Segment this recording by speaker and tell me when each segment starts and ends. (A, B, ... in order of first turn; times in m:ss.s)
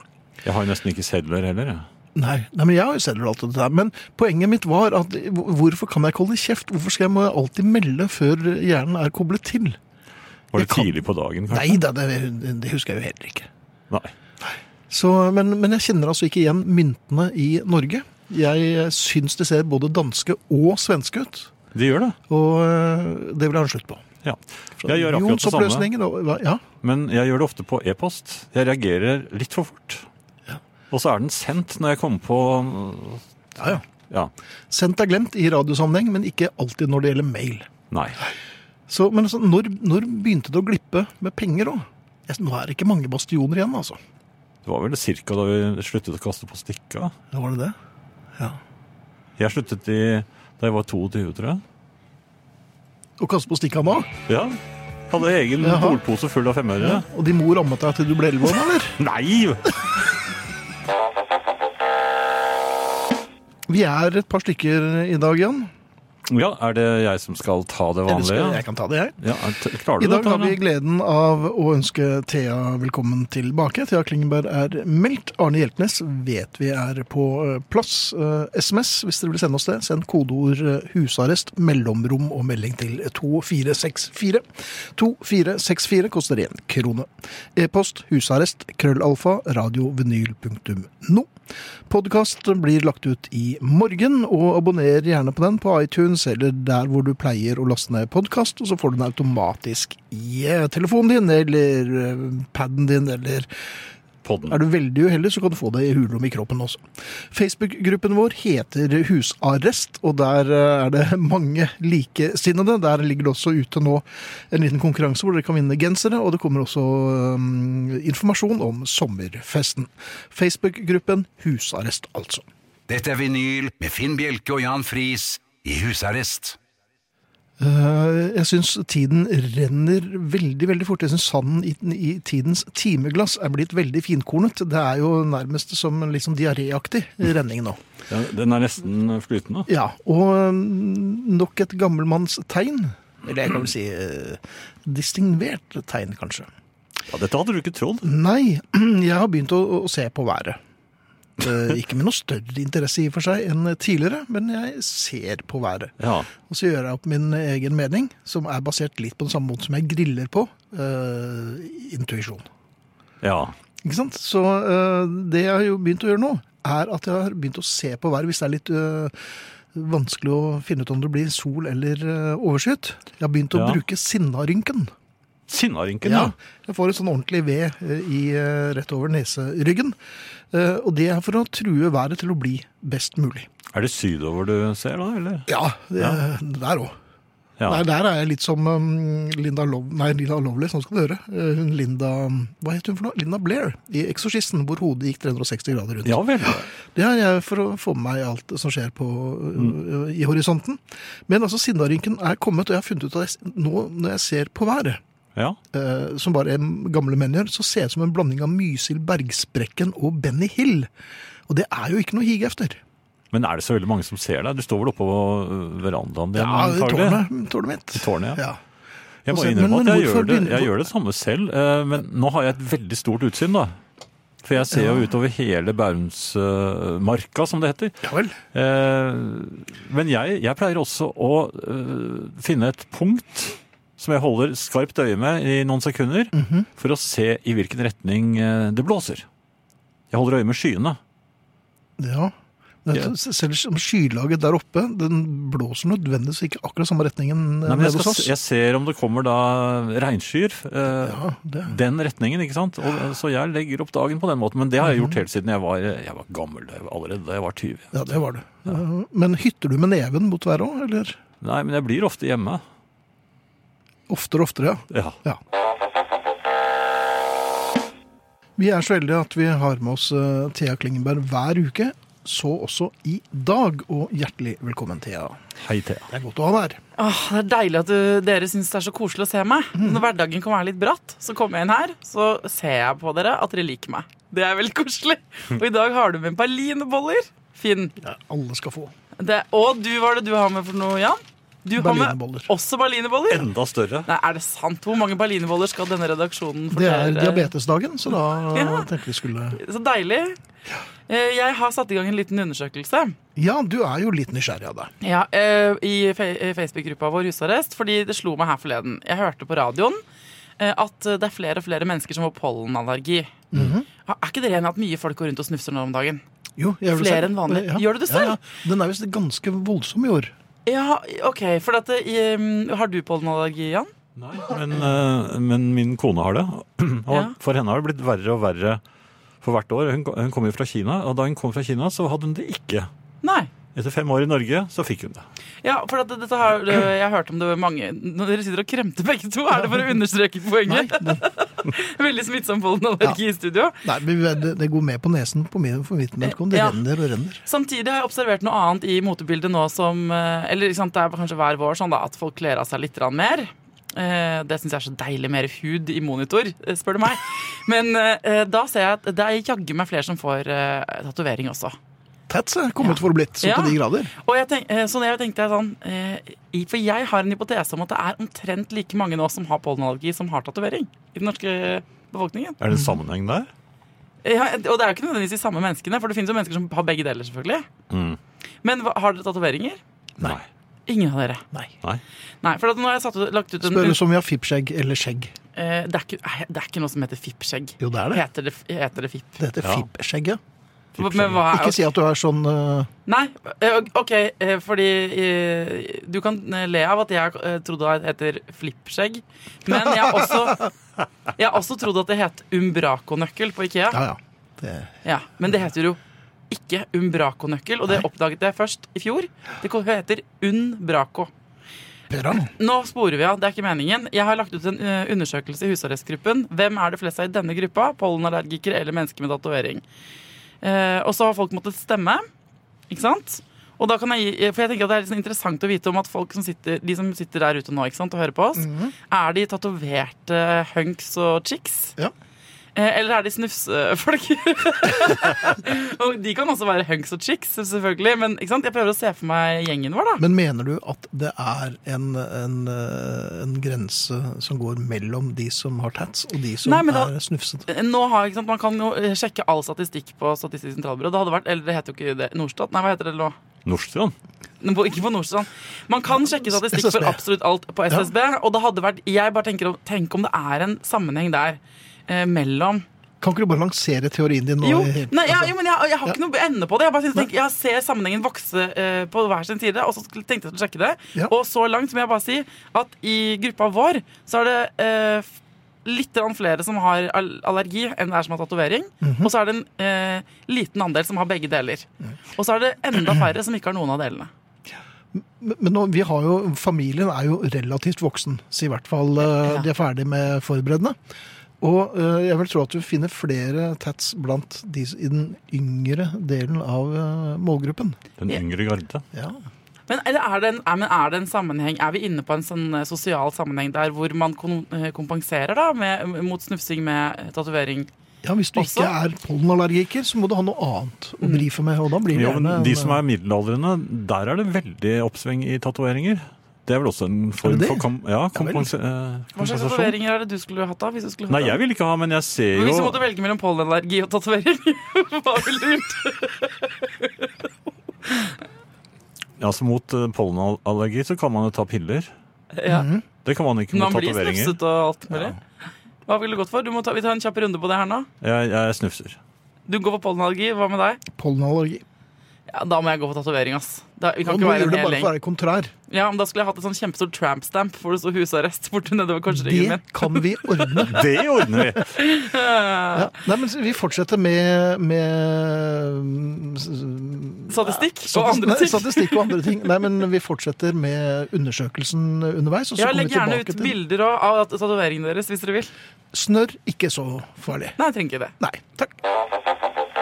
0:00.4-0:01.8 A
0:02.1-0:09.8 B
0:10.5-0:11.8 A
0:10.5-0:10.9 B
0:11.5-0:13.5 B
0:14.4-0:21.5 B
0:21.7-0:22.2 A
0:22.3-0:24.0 B
0:24.2-0:25.9 A
0:24.8-0:26.6 B
0:26.8-0:30.0 A
0:30.9-0:33.2 A
0:33.6-0:33.8 B
0:34.7-0:37.7 B
0:37.9-0:38.2 A
0:38.9-0:44.0 B
0:44.6-0:47.1 A
0:47.3-0:47.8 B
0:49.4-0:51.6 A
0:53.2-0:54.1 B
0:54.3-0:54.6 A
0:55.1-0:57.0 A
0:55.6-0:56.0 B
0:56.8-0:59.0 B
0:59.0-1:00.0 A
1:03.7-1:05.7 B
1:06.3-1:08.6 A
1:08.1-1:09.2 B
1:09.2-1:10.6 A
1:10.0-1:31.3 B
1:31.9-1:43.5 B
1:44.2-1:44.6 A
1:44.5-2:02.4 B
2:02.9-2:06.6 C
2:07.6-2:17.8 B
2:18.1-2:19.7 A
2:19.7-2:26.5 B
2:27.1-2:28.1 A
2:28.0-2:30.6 B
2:31.4-2:42.4 B
2:36.0-2:36.3 A
2:43.2-2:43.5 A
2:43.8-2:54.9 B
2:53.5-2:53.8 A
2:55.5-2:56.3 A
2:56.0-3:00.0 B
3:00.5-3:03.5 B
3:03.7-3:06.2 A
3:05.5-3:06.9 B
3:07.7-3:25.0 B
3:16.0-3:16.7 A
3:25.7-3:30.9 B
3:31.5-3:32.8 B
3:33.3-3:37.2 A
3:36.3-3:38.6 B
3:37.9-3:38.4 A
3:39.2-3:43.8 A
3:39.3-3:40.8 B
3:44.4-3:59.2 A
3:44.7-3:45.0 B
3:48.0-3:48.4 B
3:56.3-3:56.7 B
4:00.1-4:01.0 A
4:02.0-4:02.3 B
4:02.8-4:08.3 B
4:07.6-4:18.0 A
4:11.0-4:11.8 B
4:14.8-4:15.1 B
4:17.9-4:21.2 B
4:21.4-4:22.6 A
4:24.1-4:25.4 B
4:28.6-4:35.4 B
4:35.6-4:36.1 A
4:36.1-4:36.8 B
4:37.0-4:47.9 D
4:39.8-4:40.0 B
4:48.0-4:48.9 B
4:49.2-4:53.5 D
4:51.7-4:52.5 B
4:53.3-4:54.1 A
4:54.0-4:57.5 D
4:56.7-4:59.6 B
4:58.5-4:58.8 D
4:59.5-5:00.4 D
5:01.1-5:03.2 D
5:03.4-5:04.9 B
5:05.0-5:10.0 D
5:10.6-5:13.3 D
5:13.5-5:13.8 B
5:14.0-5:16.2 D
5:16.6-5:20.3 B
5:16.9-5:18.4 D
5:20.6-5:23.9 D
5:24.2-5:28.8 A
5:27.1-5:27.3 D
5:29.4-5:32.9 A
5:33.2-5:33.5 D
5:33.7-5:35.2 A
5:35.6-5:43.8 D
5:39.6-5:39.9 B
5:40.6-5:41.2 B
5:43.8-5:47.4 B
5:46.2-5:46.8 D
5:47.4-6:01.8 D
6:02.3-6:04.1 B
6:02.8-6:12.6 D
6:12.6-6:13.5 A
6:12.7-6:13.0 B
6:14.2-6:17.7 D
6:17.9-6:18.2 A
6:18.6-6:19.8 D
6:20.2-6:20.4 A
6:20.9-6:21.4 D
6:22.4-6:24.0 D
6:23.6-6:25.3 B
6:25.6-6:29.4 D
6:27.8-6:28.2 B
6:29.4-6:30.4 B
6:31.0-6:31.4 A
6:31.0-6:31.8 D
6:31.4-6:32.9 B
6:33.0-6:40.7 D
6:39.8-6:40.6 B
6:41.3-6:44.0 D
6:43.9-6:45.0 B
6:45.0-6:46.0 D
6:46.5-6:51.3 D
6:52.1-6:52.5 B
6:52.3-6:59.8 D
7:00.6-7:02.2 D
7:02.9-7:12.0 D
7:08.6-7:08.9 B
7:12.7-7:20.2 D
7:20.2-7:27.6 B
7:26.6-7:27.1 D
7:27.7-7:33.4 D
7:33.6-7:34.1 A
7:34.6-7:42.8 D
7:36.4-7:37.2 B
7:43.2-7:46.2 B
7:44.6-7:55.3 D
7:55.8-8:04.3 D
7:59.0-7:59.3 B
8:05.1-8:11.0 B
8:11.6-8:18.0 B
8:18.2-8:19.0 A
8:19.1-8:19.4 B
8:19.9-8:27.9 D
8:28.2-8:33.0 B
8:28.5-8:28.9 D
8:31.2-8:31.5 D
8:32.1-8:39.9 A
8:37.4-8:38.7 B
8:39.4-8:41.6 D
8:41.3-8:43.0 A
8:42.5-8:47.5 D
8:48.0-8:48.4 D
8:49.4-8:52.1 A
8:52.5-8:52.9 D
8:52.6-8:53.0 B
8:53.2-8:54.6 A
8:53.7-8:55.4 D
8:56.0-8:58.1 D
8:58.2-8:59.2 A
8:59.7-9:01.0 D
9:01.2-9:01.8 B
9:02.5-9:05.1 D
9:04.2-9:05.7 B
9:05.9-9:11.1 D
9:09.3-9:11.8 B
9:10.8-9:12.0 A
9:11.7-9:13.1 D
9:12.9-9:23.7 B
9:17.5-9:19.7 D
9:22.8-9:25.7 D
9:26.1-9:27.8 B
9:27.8-9:28.3 D
9:28.4-9:29.0 B